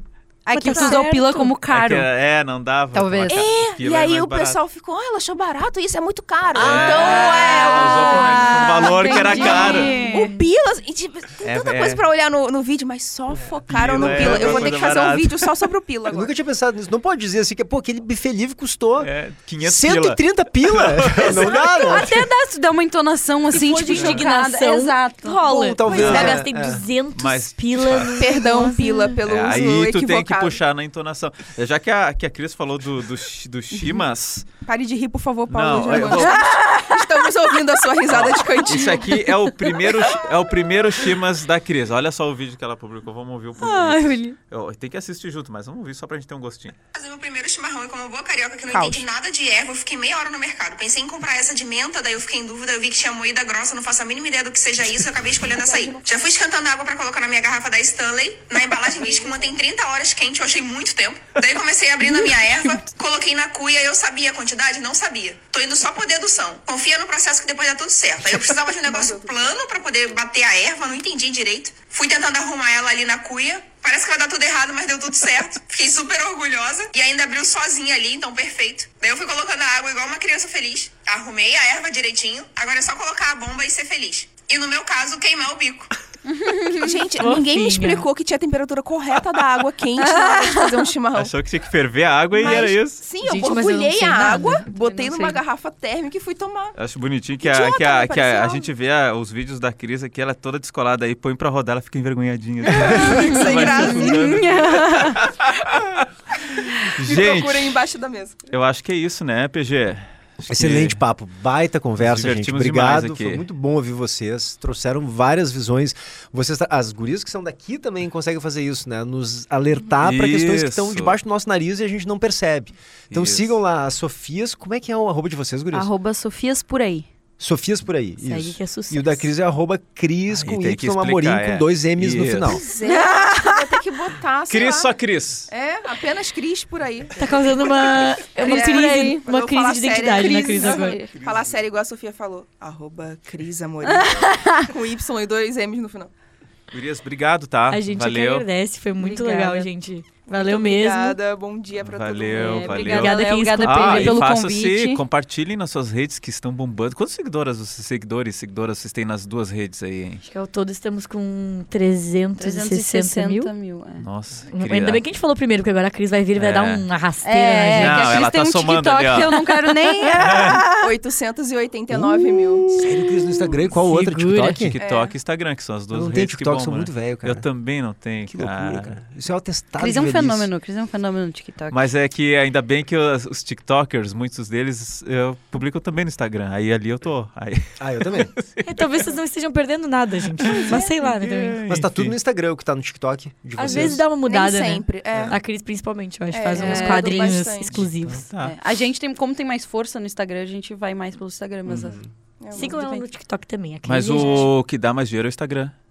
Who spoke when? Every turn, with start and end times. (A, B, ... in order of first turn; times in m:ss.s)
0:00.4-0:02.1 A
0:00.5-0:01.5 B
0:01.6-0:04.6 C
0:02.9-0:03.4 A
0:03.3-0:16.3 D
0:06.5-0:10.0 C
0:06.6-0:07.0 E
0:06.7-0:10.4 A
0:09.3-0:10.3 B
0:11.4-0:12.0 C
0:13.5-0:15.0 E
0:13.7-0:15.5 C
0:16.1-0:22.2 E
0:19.0-0:22.0 C
0:21.5-0:25.4 A
0:23.5-0:29.2 B
0:23.9-0:24.2 C
0:25.4-0:26.8 E
0:25.8-0:26.4 C
0:27.2-0:28.2 C
0:28.2-0:30.6 D
0:29.2-0:34.4 C
0:34.6-0:39.3 D
0:35.5-0:36.5 C
0:36.3-0:37.0 A
0:38.1-0:46.7 C
0:43.6-0:44.3 B
0:46.9-1:25.9 F
0:48.7-0:49.0 D
0:55.4-0:56.0 D
0:58.8-0:59.5 D
1:08.9-1:09.3 D
1:26.3-1:27.0 A
1:26.7-1:31.3 D
1:27.2-1:28.0 B
1:30.0-1:30.8 A
1:31.1-1:33.0 C
1:32.3-1:36.8 D
1:33.2-1:34.7 B
1:34.8-1:35.4 A
1:36.8-1:47.8 C
1:37.4-1:38.7 D
1:42.7-1:44.6 D
1:42.8-1:45.3 A
1:46.8-1:48.4 D
1:48.5-1:51.0 C
1:50.5-2:05.9 E
1:52.0-1:53.4 C
2:00.0-2:01.2 C
2:03.1-2:03.6 C
2:05.7-2:07.1 A
2:07.4-2:12.6 E
2:08.2-2:09.3 B
2:10.3-2:12.6 C
2:12.4-2:15.0 D
2:12.8-2:13.6 A
2:14.5-2:15.5 C
2:15.5-2:26.1 D
2:17.2-2:21.0 B
2:18.4-2:19.2 A
2:20.5-2:21.2 A
2:23.9-2:24.7 A
2:26.7-2:28.5 C
2:27.7-2:31.2 B
2:29.0-2:29.7 A
2:30.4-2:33.0 D
2:31.8-2:40.2 C
2:32.3-2:35.0 A
2:32.8-2:34.2 B
2:40.2-2:43.5 B
2:42.4-2:44.0 A
2:44.0-2:45.0 C
2:44.5-2:48.2 B
2:46.3-2:46.9 C
2:47.2-2:50.9 A
2:47.8-2:50.6 C
2:50.8-2:52.6 D
2:51.9-2:54.8 E
2:53.7-2:54.7 B
2:54.6-2:59.0 C
2:54.8-2:55.1 D
2:55.9-2:57.4 E
2:58.3-3:00.5 E
2:59.8-3:01.8 A
3:01.7-3:08.8 C
3:07.8-3:08.3 E
3:08.6-3:11.6 B
3:10.4-3:12.1 C
3:11.7-3:14.0 E
3:13.6-3:18.3 B
3:13.7-3:15.4 D
3:16.3-3:17.8 D
3:16.5-3:17.5 A
3:17.7-3:18.6 C
3:18.4-3:22.0 A
3:22.4-3:22.8 D
3:22.5-3:23.0 A
3:22.5-3:24.5 B
3:23.8-3:25.7 C
3:24.2-3:24.5 A